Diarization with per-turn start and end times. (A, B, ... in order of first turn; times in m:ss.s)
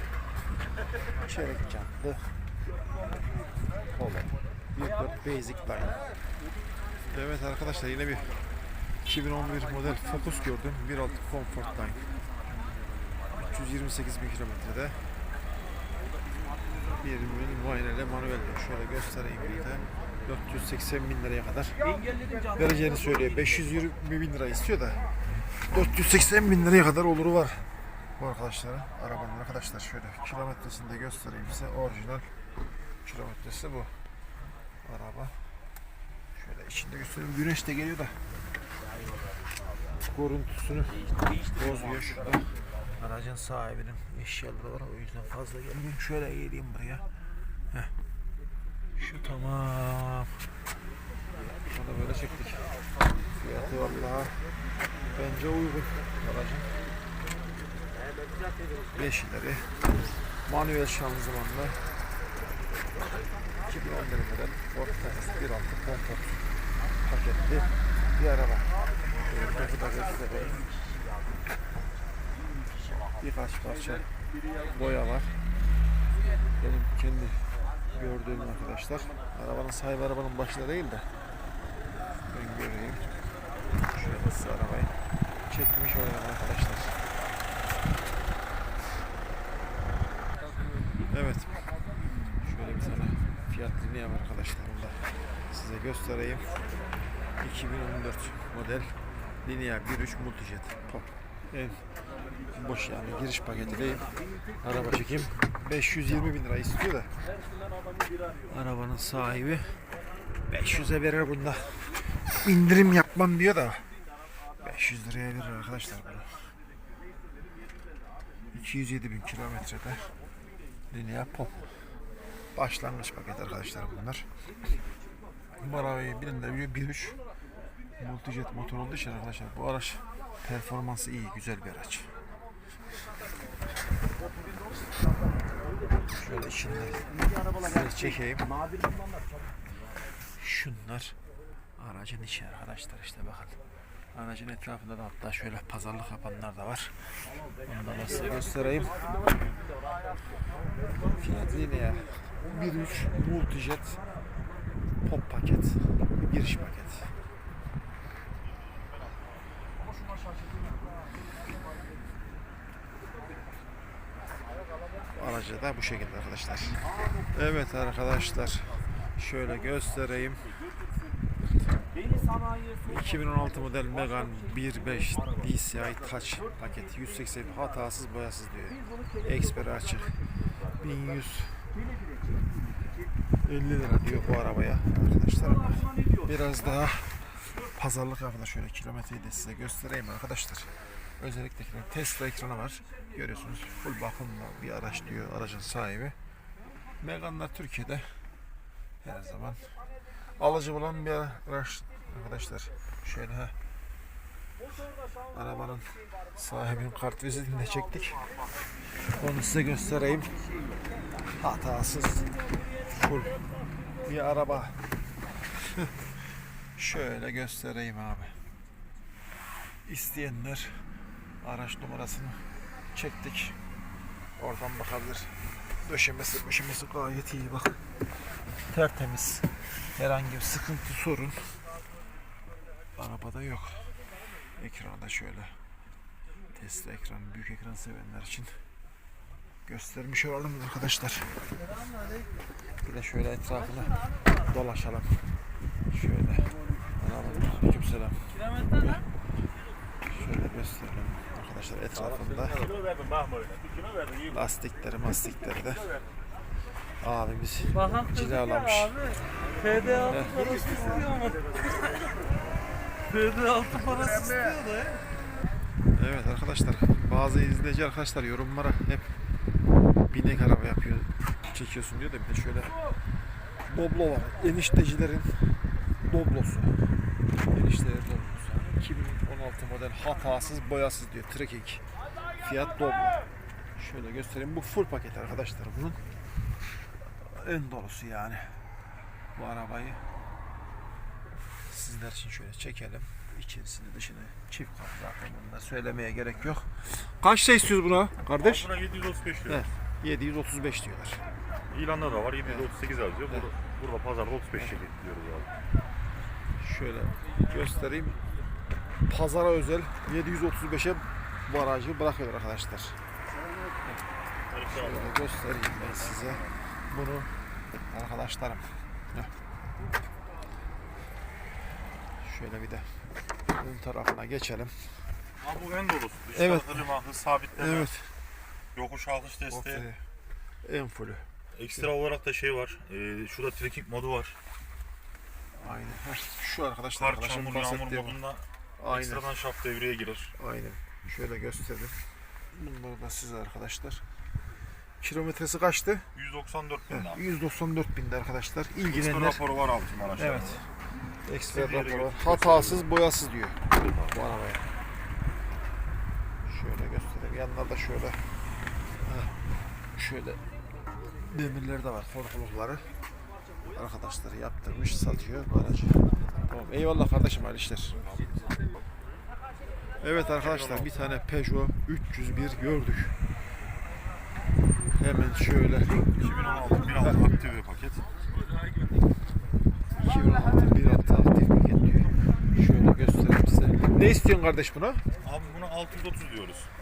0:01.2-0:02.4 A
0:03.9-0:06.0 A
0:07.1-0:08.4 A
0:09.0-0:12.0 A
0:13.3-0:15.0 A
0:17.0-0:21.8 A
0:22.5-0:25.0 A
0:25.6-0:27.7 A
0:28.2-0:32.3 A
0:33.0-0:34.0 A
0:34.8-0:35.4 A
0:36.4-0:38.2 A
0:40.0-0:47.0 A
0:49.0-0:50.4 A
0:51.7-0:52.7 A
0:53.3-0:54.4 A
0:55.2-0:56.7 A
0:58.9-0:59.8 A
1:00.5-1:01.8 A
1:03.7-1:06.4 A
1:07.0-1:08.7 A
1:09.2-1:10.7 A
1:13.1-1:14.1 A
1:14.7-1:15.3 A
1:16.6-1:21.1 A
1:22.3-1:23.1 A
1:23.9-1:25.0 A
1:25.5-1:27.0 A
1:31.1-1:31.6 A
1:32.4-1:36.5 A
1:37.4-1:41.8 A
1:42.5-1:44.1 A
1:44.6-1:47.1 A
1:48.5-1:49.8 A
1:50.5-1:53.9 A
1:54.6-1:56.5 A
1:58.5-2:00.1 A
2:00.9-2:01.7 A
2:02.6-2:04.3 A
2:05.6-2:07.2 A
2:08.0-2:12.1 A
2:16.1-2:18.5 A
2:20.4-2:21.2 A
2:21.8-2:23.6 A
2:24.1-2:26.9 A
2:27.6-2:29.0 A
2:31.1-2:34.0 A
2:35.0-2:37.1 A
2:45.2-2:46.8 A
2:47.3-2:50.5 A
2:52.8-3:00.2 A
3:00.7-3:01.7 A
3:03.4-3:16.2 A
3:17.0-3:18.2 A
3:19.0-3:19.7 A
3:20.4-3:23.5 A
3:25.3-3:28.2 A
3:29.1-3:30.3 A
3:31.4-3:33.4 A
3:34.0-3:34.8 A
3:35.6-3:35.9 A
3:36.8-3:38.4 A
3:39.8-3:40.8 A
3:41.4-3:43.6 A
3:44.4-3:47.8 A
3:48.7-3:51.6 A
3:53.0-3:53.9 A
3:54.6-3:55.6 A
3:56.5-3:58.6 A
3:59.7-4:01.4 A
4:02.8-4:05.3 A
4:05.9-4:09.1 A
4:10.1-4:12.7 A
4:12.7-4:14.3 B
4:14.3-4:16.0 A
4:17.0-4:19.1 A
4:17.8-4:22.0 C
4:20.1-4:20.6 A
4:23.1-4:25.0 C
4:25.9-4:29.1 A
4:30.1-4:32.8 A
4:33.7-4:36.8 A
4:37.5-4:41.8 A
4:42.4-4:43.2 A
4:43.8-4:46.0 A
4:47.2-4:48.6 A
4:49.4-4:50.0 A
4:51.6-4:58.7 A
4:58.4-4:59.6 B
4:59.5-5:01.2 A
5:01.7-5:05.5 B
5:02.4-5:02.7 A
5:06.6-5:08.2 A
5:09.1-5:13.0 A
5:14.5-5:16.6 B
5:14.7-5:17.3 A
5:17.9-5:19.3 A
5:22.2-5:25.0 A
5:25.4-5:27.9 B
5:26.4-5:26.9 A
5:27.6-5:28.1 A
5:28.8-5:29.9 B
5:29.5-5:30.0 A
5:30.6-5:31.9 A
5:31.6-5:34.4 B
5:35.6-5:38.2 A
5:37.0-5:40.4 B
5:38.8-5:39.4 A
5:40.4-5:42.0 A
5:42.5-5:44.0 A
5:45.0-5:46.1 A
5:46.2-5:47.2 B
5:46.9-5:49.4 A
5:48.9-5:50.7 B
5:50.2-5:50.6 A
5:51.2-5:54.7 A
5:51.5-5:52.9 B
5:53.7-5:54.2 B
5:56.5-5:58.2 A
5:59.0-5:59.3 A
6:00.0-6:00.4 A
6:01.1-6:02.9 A
6:03.7-6:08.1 A
6:08.0-6:08.8 B
6:10.0-6:13.2 A
6:10.4-6:10.9 B
6:15.0-6:17.2 A
6:16.2-6:18.1 B
6:20.0-6:25.0 A
6:25.2-6:26.7 B